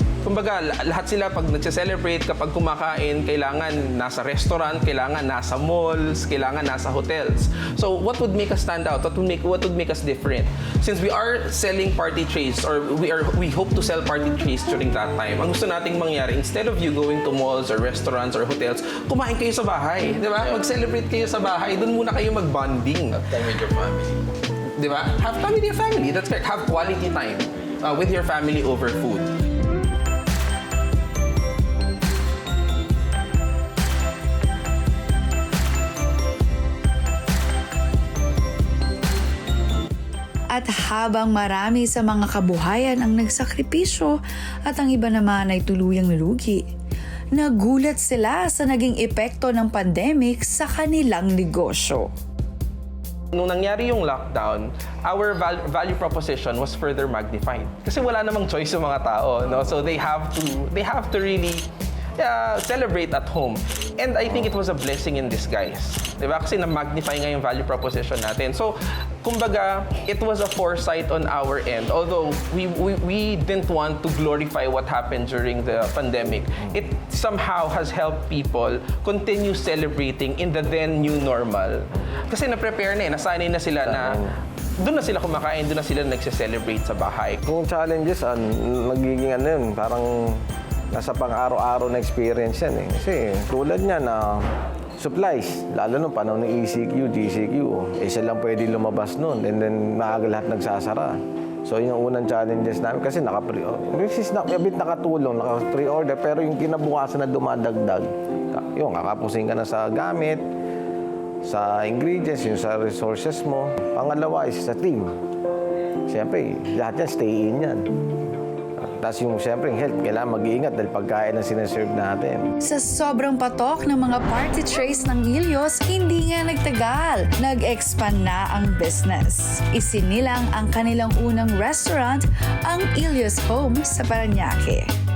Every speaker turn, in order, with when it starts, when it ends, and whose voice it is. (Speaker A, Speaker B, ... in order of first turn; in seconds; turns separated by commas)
Speaker A: 0.2-23.3, Speaker B: 20.4-20.7, Speaker B: 23.1-24.1, Speaker A: 24.8-29.3, Speaker C: 40.5-46.6, Speaker C: 47.3-52.1, Speaker A: 53.3-61.6, Speaker A: 62.2-84.2, Speaker B: 83.8-84.3, Speaker A: 84.8-87.4, Speaker B: 87.4-94.4, Speaker B: 95.0-110.4, Speaker B: 111.4-115.1, Speaker B: 116.1-117.8, Speaker B: 118.8-122.5, Speaker C: 122.6-134.9